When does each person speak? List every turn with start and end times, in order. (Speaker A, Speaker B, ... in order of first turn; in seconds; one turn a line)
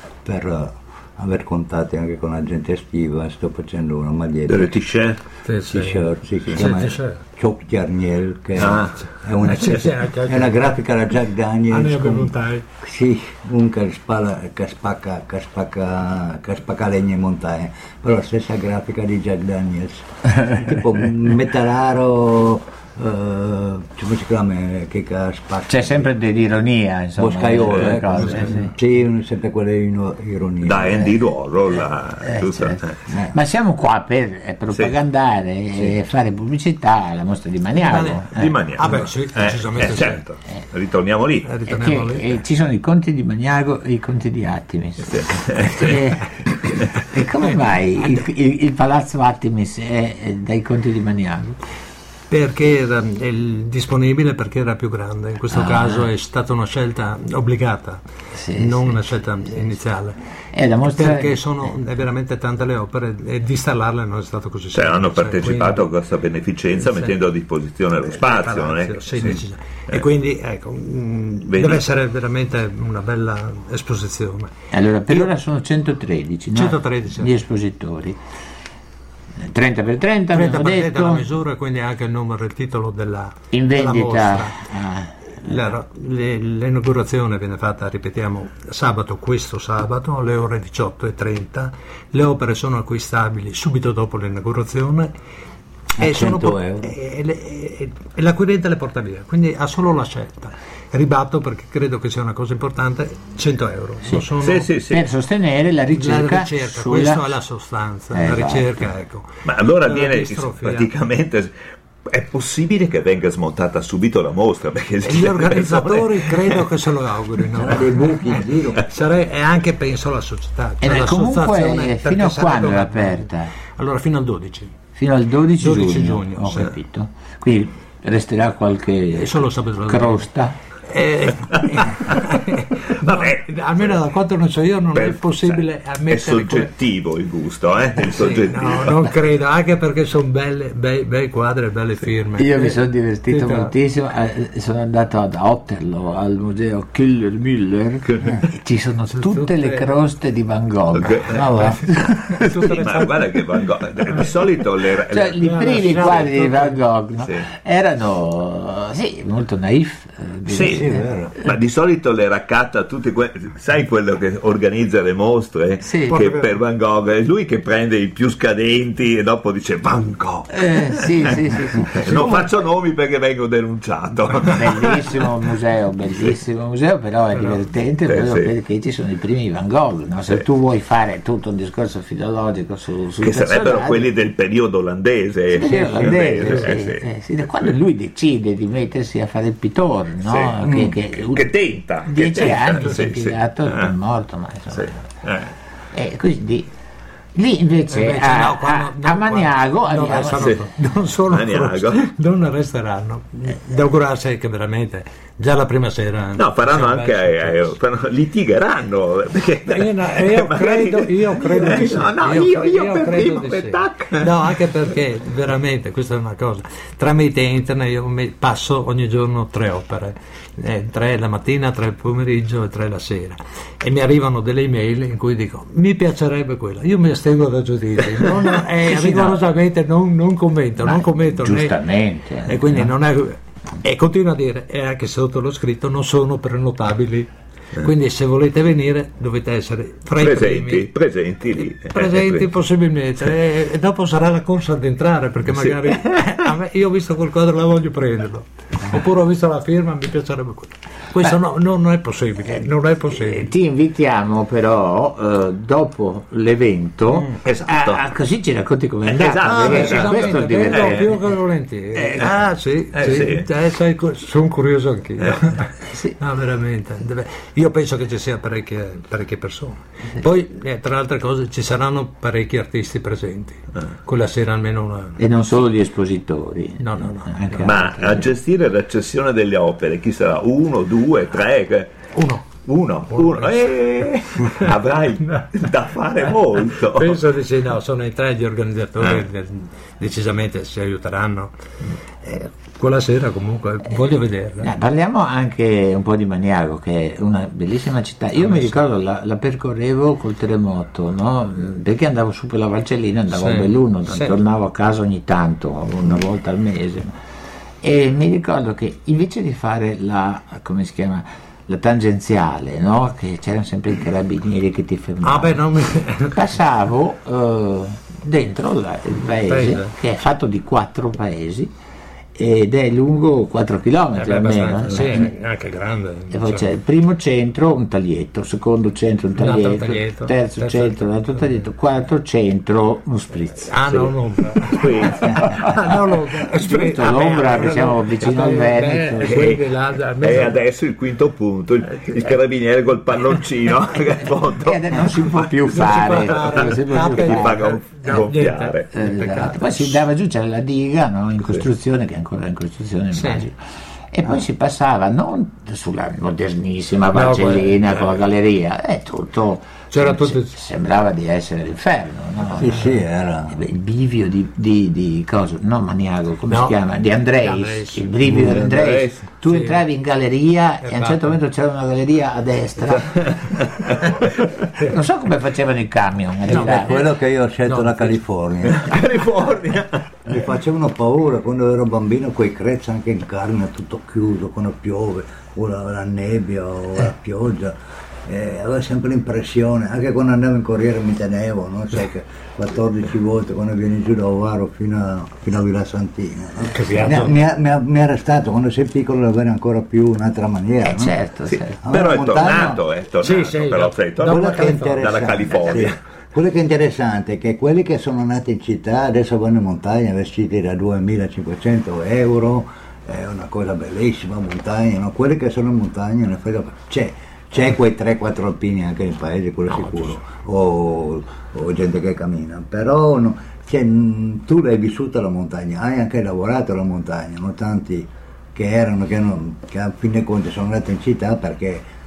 Speaker A: 0.2-4.8
Speaker B: 4.5-5.2
Speaker C: 5.5-7.2
Speaker A: 5.7-26.1
Speaker B: 8.6-9.1
Speaker C: 9.4-10.7
Speaker C: 11.7-12.7
Speaker D: 25.7-28.7
Speaker A: 27.2-31.1
Speaker B: 27.7-28.0
Speaker B: 30.6-32.9
Speaker D: 32.2-38.5
Speaker A: 33.1-33.4
Speaker C: 37.8-38.2
Speaker B: 38.4-41.5
Speaker C: 38.8-40.2
Speaker C: 41.5-42.4
Speaker D: 41.7-46.4
Speaker B: 45.1-46.1
Speaker D: 47.0-51.6
Speaker C: 52.3-58.0
Speaker D: 55.5-56.1
Speaker D: 58.4-59.0
Speaker C: 58.5-60.2
Speaker D: 60.5-61.4
Speaker C: 60.9-65.9
Speaker B: 64.7-69.4
Speaker C: 66.8-67.1
Speaker C: 68.1-74.5
Speaker B: 71.5-71.8
Speaker D: 74.7-78.2
Speaker C: 76.5-77.3
Speaker D: 79.4-81.2
Speaker C: 80.3-84.5
Speaker D: 83.5-85.5
Speaker C: 85.4-95.1
Speaker A: 96.0-96.9
Speaker C: 96.0-104.7
Speaker B: 104.4-105.0
Speaker D: 104.9-107.4
Speaker C: 106.0-110.9
Speaker D: 108.1-108.8
Speaker B: 109.5-111.5
Speaker B: 112.0-116.6
Speaker C: 115.0-124.8
Speaker A: 117.6-118.9
Speaker D: 120.8-123.5
Speaker D: 125.0-130.6
Speaker C: 125.6-126.8
Speaker C: 129.2-130.3
Speaker C: 130.9-136.7
Speaker B: 133.0-134.0
Speaker B: 134.9-139.1
Speaker C: 138.0-143.7
Speaker D: 142.4-153.0
Speaker B: 148.1-148.4
Speaker C: 149.1-149.9
Speaker B: 150.9-151.3
Speaker C: 151.3-153.2
Speaker B: 152.8-155.4
Speaker D: 155.1-161.1
Speaker C: 155.4-156.8
Speaker B: 160.5-160.9
Speaker A: 160.6-161.3
Speaker B: 161.4-175.3
Speaker D: 165.8-166.2
Speaker C: 166.1-166.4
Speaker D: 170.5-172.5
Speaker D: 174.5-184.1
Speaker C: 177.3-177.6
Speaker B: 178.1-178.5
Speaker B: 183.2-187.0
Speaker D: 185.5-195.0
Speaker B: 190.2-193.9
Speaker A: 190.7-190.9
Speaker B: 194.7-195.5
Speaker D: 195.9-196.7
Speaker D: 197.3-200.6
Speaker C: 197.9-207.8
Speaker B: 201.3-202.1
Speaker B: 206.4-214.4
Speaker C: 209.7-231.8
Speaker D: 228.8-229.4
Speaker D: 230.8-232.9
Speaker C: 232.4-240.9
Speaker B: 240.2-242.5
Speaker C: 241.6-253.5
Speaker B: 245.5-246.0
Speaker D: 252.5-261.2
Speaker B: 257.4-258.1
Speaker B: 259.1-261.1
Speaker C: 259.5-275.2
Speaker B: 262.0-262.4
Speaker B: 262.9-263.5
Speaker D: 275.2-278.3
Speaker C: 276.8-277.7
Speaker B: 277.6-281.9
Speaker C: 282.1-282.5
Speaker B: 282.6-287.2
Speaker C: 283.1-284.7
Speaker C: 285.3-285.5
Speaker C: 286.9-291.5
Speaker C: 292.3-294.7
Speaker D: 294.6-307.2
Speaker C: 298.4-298.8
Speaker C: 303.3-304.4
Speaker D: 307.8-315.6
Speaker C: 315.2-316.4
Speaker D: 316.3-321.7
Speaker C: 319.4-319.9
Speaker D: 322.4-325.3
Speaker C: 324.1-326.7
Speaker D: 326.3-339.6
Speaker C: 329.4-331.4
Speaker C: 333.7-340.6
Speaker B: 334.7-335.7
Speaker B: 339.2-339.6
Speaker B: 340.2-348.9
Speaker D: 344.6-347.6
Speaker C: 345.7-350.0
Speaker D: 348.9-353.6
Speaker C: 353.1-353.5
Speaker D: 354.1-373.5
Speaker C: 357.1-358.2
Speaker C: 359.9-360.6
Speaker A: 362.6-363.6
Speaker C: 366.5-366.8
Speaker C: 367.4-368.1
Speaker B: 368.2-369.2
Speaker C: 369.5-369.8
Speaker C: 370.8-371.3
Speaker B: 373.1-374.0
Speaker D: 374.8-377.0
Speaker C: 376.5-378.2
Speaker A: 376.5-378.9
Speaker B: 378.7-380.2
Speaker A: 380.3-387.7
Speaker A: 388.3-401.2
Speaker C: 396.7-397.4
Speaker D: 400.8-401.8
Speaker A: 401.8-402.8
Speaker B: 401.9-406.0
Speaker C: 403.2-405.1
Speaker A: 404.2-431.8